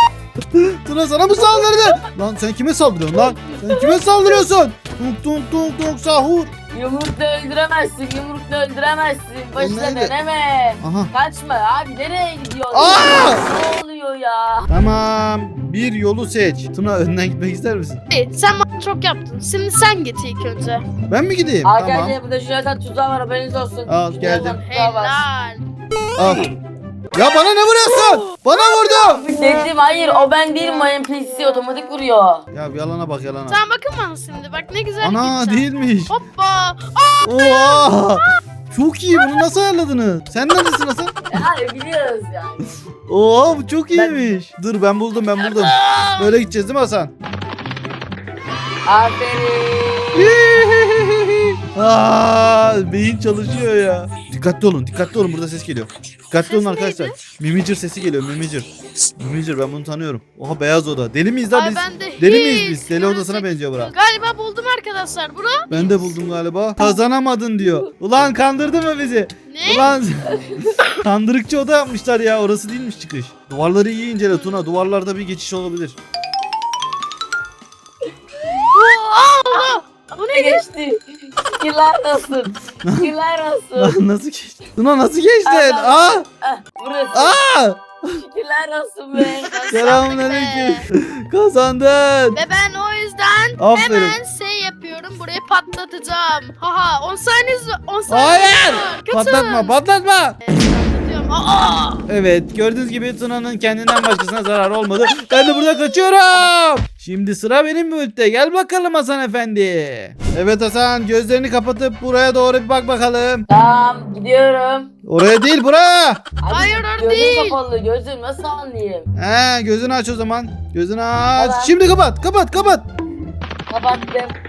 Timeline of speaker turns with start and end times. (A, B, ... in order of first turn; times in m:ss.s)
0:00.5-0:06.5 A
0:01.5-0:02.0 B
0:06.7-0:14.7 B
0:09.6-0:10.1 A
0:10.8-0:11.1 A
0:12.7-0:13.4 A
0:14.7-0:18.0 A
0:18.1-0:20.8 C
0:21.1-0:22.1 A
0:21.6-0:25.2 B
0:23.9-0:24.6 A
0:24.5-0:25.6 C
0:26.2-0:26.5 A
0:27.1-0:29.2 A
0:28.0-0:29.2 C
0:29.2-0:32.4 B
0:32.5-0:33.6 A
0:33.5-0:38.3 C
0:35.0-0:36.2 A
0:37.2-0:41.2 A
0:39.1-0:39.4 C
0:41.3-0:42.8 B
0:43.1-0:47.1 A
0:43.9-0:44.4 B
0:45.4-0:46.4 C
0:48.8-0:50.3 B
0:50.1-1:03.9 A
0:56.5-0:57.2 C
1:01.5-1:05.7 C
1:05.7-1:16.0 A
1:09.5-1:09.9 C
1:10.3-1:10.7 B
1:18.7-1:20.6 C
1:20.3-1:24.0 B
1:22.8-1:23.1 A
1:23.8-1:26.2 A
1:25.4-1:27.4 B
1:27.1-1:28.2 A
1:28.2-1:29.5 B
1:29.2-1:32.4 A
1:29.4-1:30.8 C
1:32.3-1:39.8 C
1:33.6-1:34.2 A
1:38.1-1:40.4 A
1:40.4-1:42.0 C
1:42.1-1:53.4 A
1:53.5-1:54.9 B
1:55.0-1:56.2 A
1:56.4-1:59.1 B
1:56.5-1:57.6 C
1:59.1-2:02.8 A
2:01.4-2:01.7 B
2:03.7-2:04.4 B